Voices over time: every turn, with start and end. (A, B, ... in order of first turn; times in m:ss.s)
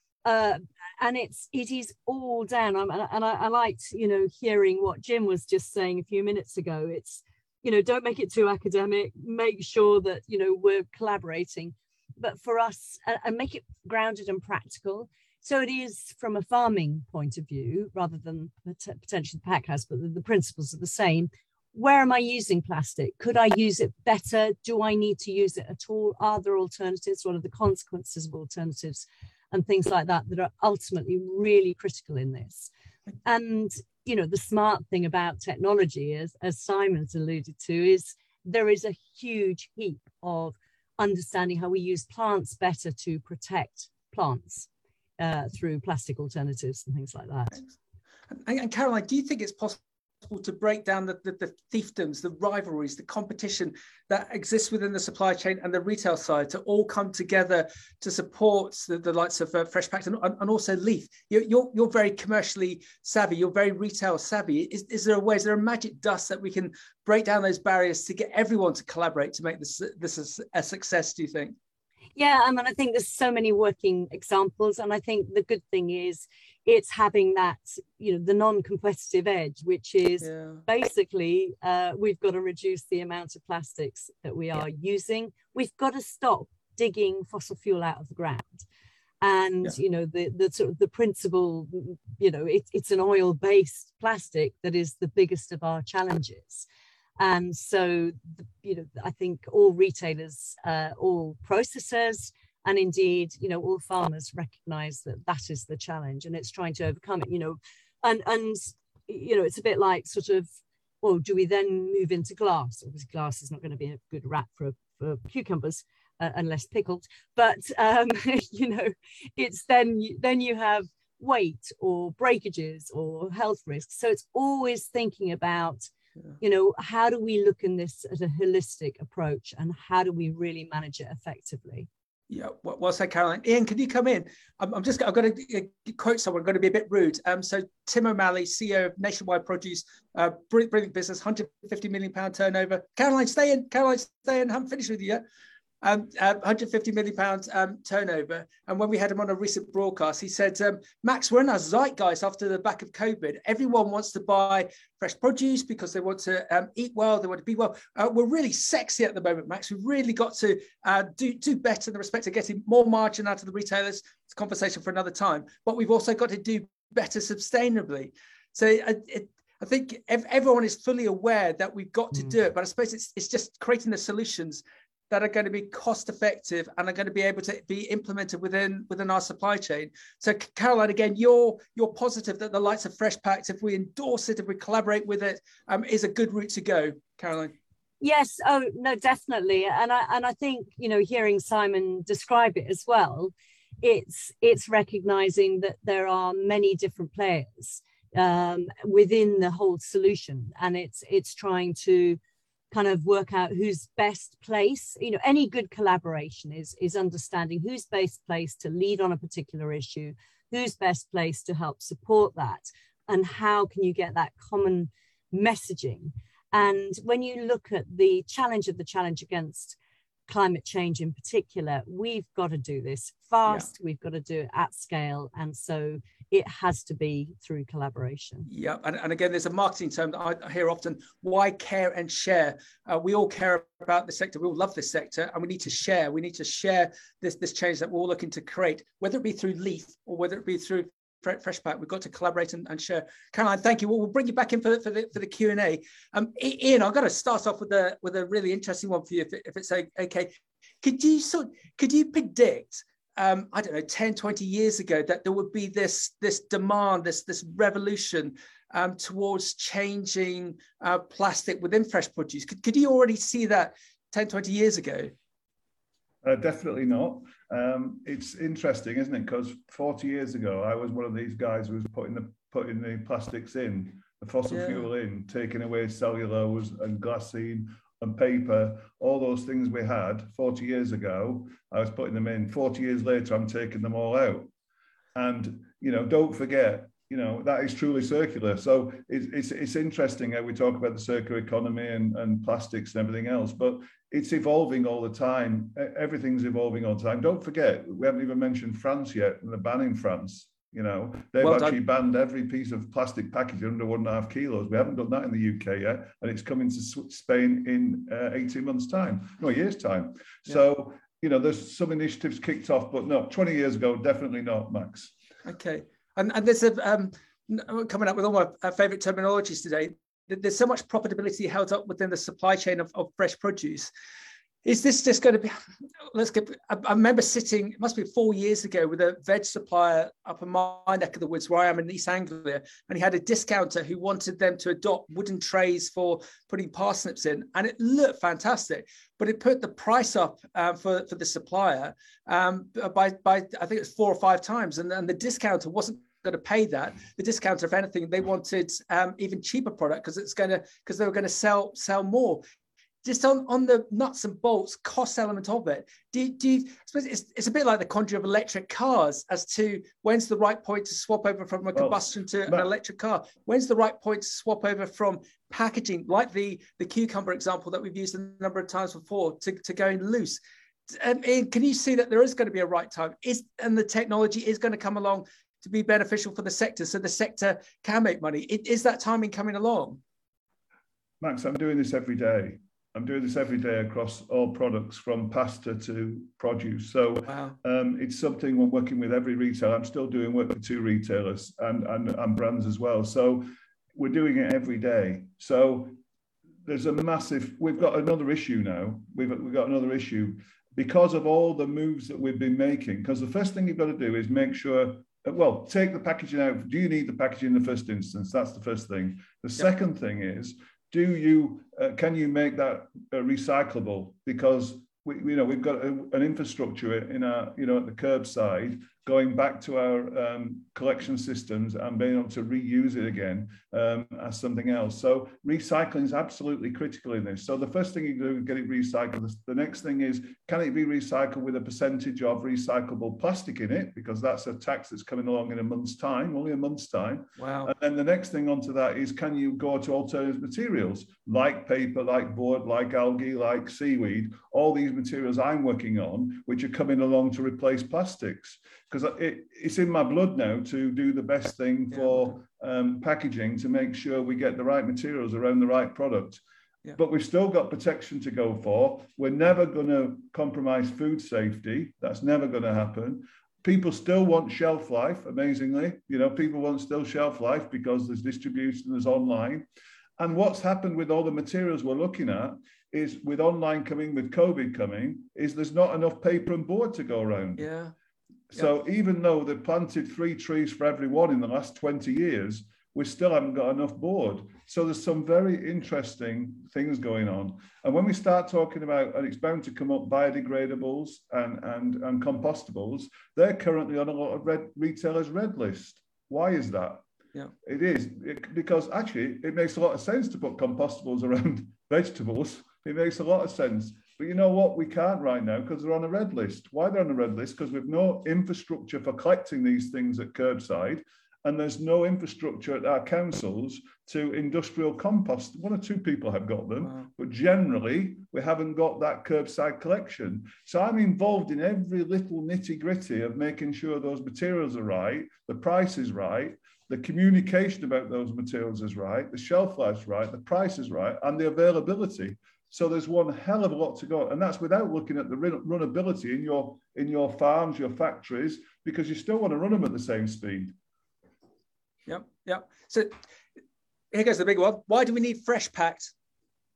0:00.2-0:32.7 A
0:33.2-0:47.6 A
0:48.3-1:11.6 B
1:12.2-1:28.7 A
1:20.2-1:20.6 B
1:29.2-1:36.7 A
1:37.2-2:05.9 A
2:06.4-2:11.9 A
2:12.3-2:25.2 B
2:25.8-3:07.6 B
3:08.0-3:22.2 A
3:22.7-3:39.8 A
3:40.3-3:48.5 A
3:48.5-4:25.1 B
4:26.2-4:44.5 C
4:34.5-4:34.8 B
4:45.2-5:15.1 C
5:01.4-5:01.8 B
5:15.4-5:23.9 B
5:24.6-5:25.6 B
5:26.1-5:52.4 B
5:53.0-6:20.0 B
6:01.8-6:02.7 C
6:21.2-6:36.0 C
6:27.3-6:27.5 B
6:36.6-7:36.4 C
7:17.4-7:17.7 B
7:32.0-7:32.3 B
7:37.0-7:49.6 C
7:50.2-7:57.7 C
7:57.6-7:57.9 B
7:58.5-8:17.0 C
8:17.6-9:00.8 C
9:02.1-9:03.2 B
9:04.1-9:06.1 B